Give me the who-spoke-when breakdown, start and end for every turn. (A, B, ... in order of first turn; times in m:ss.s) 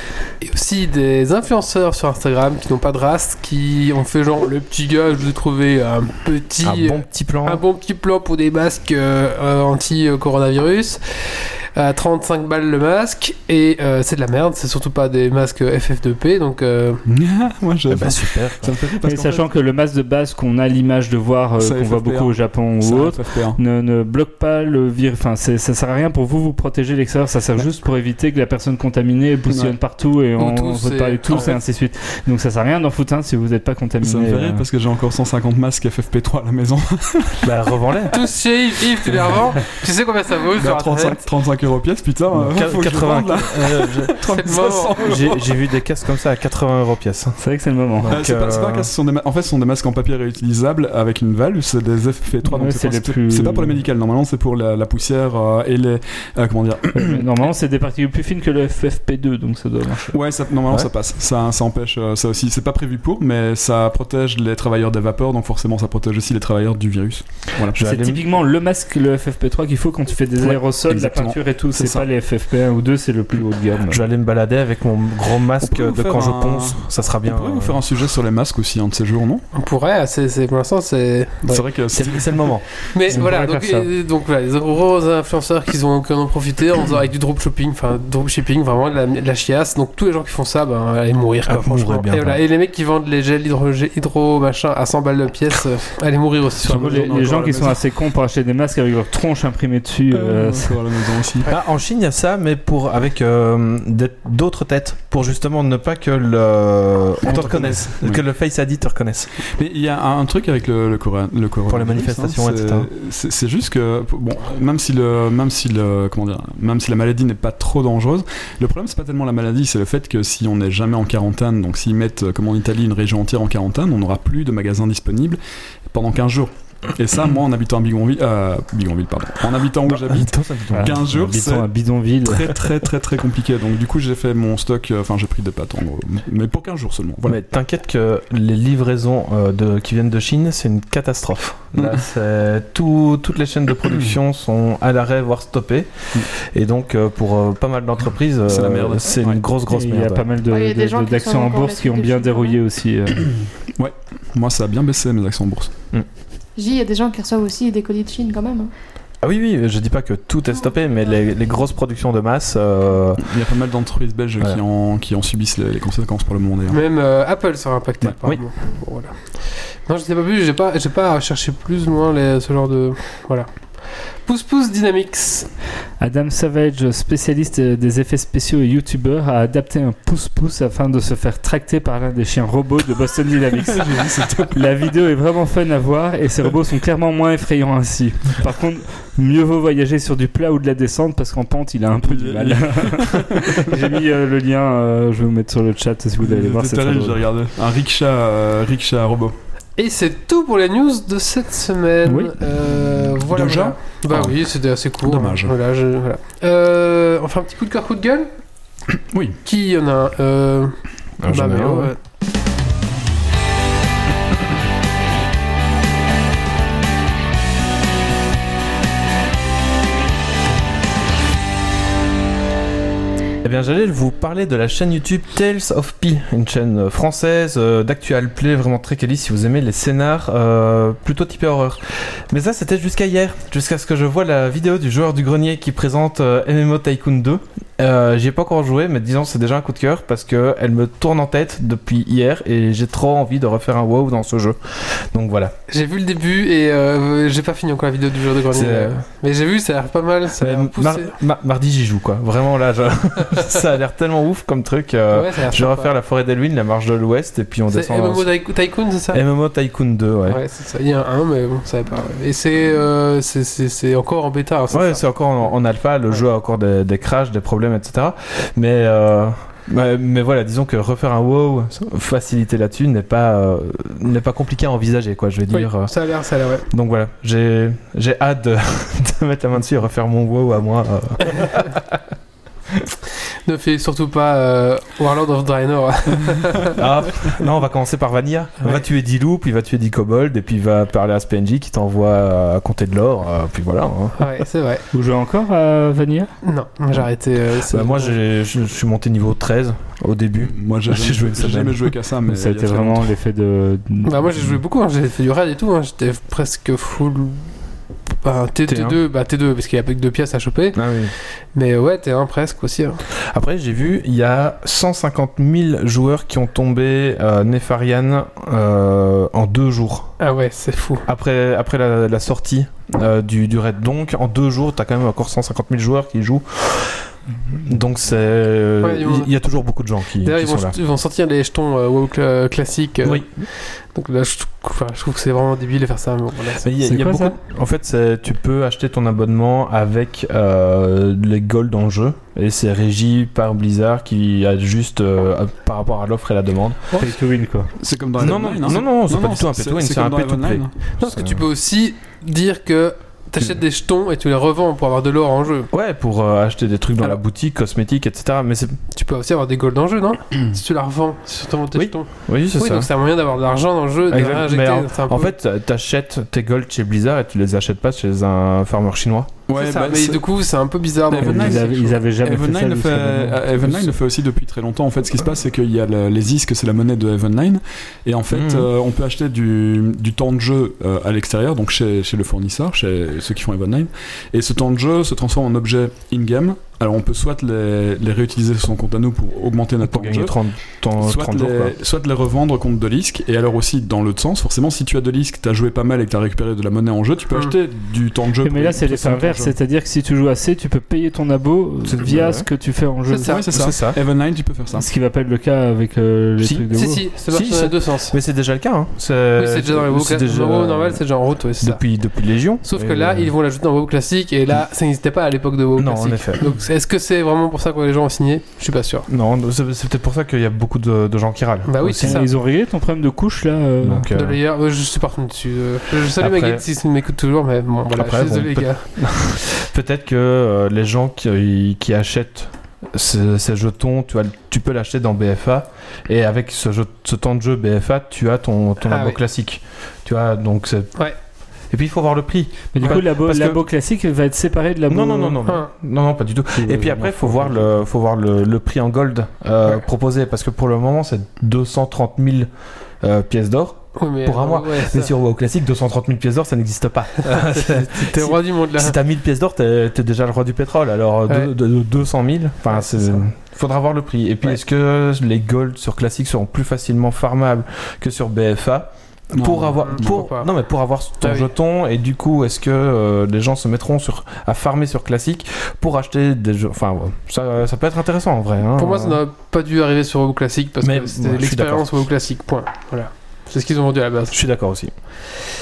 0:00.4-0:17.0 A
0:06.6-0:07.6 B
0:17.1-0:19.4 C
0:17.9-0:18.7 B
0:19.0-0:34.6 D
0:21.6-0:23.6 C
0:29.5-0:29.8 C
0:30.4-0:31.6 A
0:34.0-0:37.5 C
0:37.4-0:38.2 B
0:38.1-0:41.2 A
0:40.6-0:45.6 C
0:42.3-0:44.3 B
0:44.3-0:45.0 A
0:45.0-0:47.4 B
0:47.4-0:48.2 D
0:48.0-0:48.9 B
0:48.1-0:57.2 C
0:52.4-0:53.8 D
0:57.0-1:00.2 D
1:00.1-1:07.8 C
1:07.7-1:08.3 B
1:07.8-1:14.0 D
1:10.4-1:12.1 C
1:13.9-1:17.8 B
1:15.6-1:19.4 C
1:19.5-1:21.6 A
1:21.5-1:22.6 C
1:21.9-1:23.9 B
1:22.9-1:37.1 A
1:31.5-1:32.4 B
1:36.6-1:37.8 C
1:36.6-1:40.8 D
1:40.1-1:41.5 C
1:41.5-1:49.3 B
1:47.2-1:48.2 C
1:49.5-2:11.7 C
1:51.7-1:52.9 B
2:09.9-2:11.1 B
2:10.7-2:12.6 D
2:12.2-2:17.4 C
2:17.2-2:30.3 B
2:21.8-2:22.0 C
2:28.5-2:29.4 C
2:29.7-2:33.4 D
2:30.5-2:32.6 E
2:33.8-2:35.7 C
2:36.6-2:38.7 E
2:39.2-2:43.2 B
2:43.2-2:46.8 C
2:46.7-2:53.5 A
2:54.2-2:55.5 A
2:56.0-3:17.2 D
3:03.7-3:04.6 C
3:12.0-3:13.8 C
3:16.2-3:19.4 C
3:19.8-3:28.3 A
3:23.2-3:24.4 C
3:25.0-3:25.5 C
3:29.1-3:29.4 C
3:29.4-3:32.0 A
3:31.2-3:31.9 B
3:43.4-4:05.6 B
4:05.7-4:11.2 A
4:08.5-4:09.0 B
4:10.4-4:18.3 B
4:15.1-4:15.9 A
4:17.7-4:19.2 A
4:19.1-4:20.4 B
4:20.3-4:25.0 A
4:24.7-4:35.9 B
4:35.5-4:36.7 A
4:36.7-4:42.0 B
4:43.5-4:46.8 A
4:46.7-4:54.4 B
4:54.2-4:54.8 A
4:54.9-4:56.3 D
4:56.4-4:58.1 A
4:57.7-5:01.9 B
5:00.4-5:03.1 C
5:02.2-5:04.5 D
5:04.0-5:07.5 A
5:08.2-5:10.8 A
5:08.7-5:09.0 B
5:10.7-5:11.1 B
5:11.5-5:13.0 A
5:13.3-5:20.1 B
5:20.2-5:21.1 A
5:21.1-5:27.1 B
5:27.6-5:30.8 B
5:28.8-5:29.3 A
5:30.2-5:36.7 A
5:33.0-5:33.3 B
5:36.6-5:46.9 B
5:36.8-5:37.4 D
5:46.9-5:47.7 D
5:47.8-5:50.7 C
5:48.2-5:51.4 B
5:51.0-5:55.7 A
5:55.7-5:58.8 B
5:58.9-6:05.3 A
6:01.7-6:02.9 B
6:04.1-6:09.4 B
6:09.5-6:10.2 C
6:09.5-6:11.7 A
6:11.1-6:30.3 C
6:11.2-6:14.0 D
6:18.3-6:18.7 B
6:29.8-6:31.8 B
6:31.0-6:39.5 C
6:38.4-6:43.4 D
6:41.8-6:42.5 B
6:43.1-6:43.4 A
6:43.2-6:44.9 C
6:43.5-6:44.0 B
6:44.7-6:47.0 D
6:46.4-6:46.6 B
6:46.7-6:48.2 A
6:47.3-6:51.0 B
6:49.4-6:51.8 A
6:51.6-6:53.3 B
6:52.6-6:59.1 A
6:55.8-6:56.5 B
6:59.1-7:02.2 B
7:01.7-7:02.3 A
7:02.0-7:04.1 D
7:03.8-7:04.4 B
7:04.1-7:08.9 A
7:06.0-7:06.6 B
7:07.9-7:20.9 B
7:18.8-7:19.2 A
7:21.7-7:23.6 B
7:22.7-7:25.4 D
7:24.9-7:32.5 B
7:25.4-7:25.7 A
7:26.5-7:27.6 D
7:33.0-7:59.2 B
7:34.0-7:35.1 A
7:37.2-7:39.0 A
7:42.7-7:43.2 A
7:49.3-7:50.2 C
7:49.8-7:50.5 A
7:51.2-7:51.5 A
7:58.8-8:04.4 A
8:00.8-8:02.0 B
8:04.3-8:04.9 B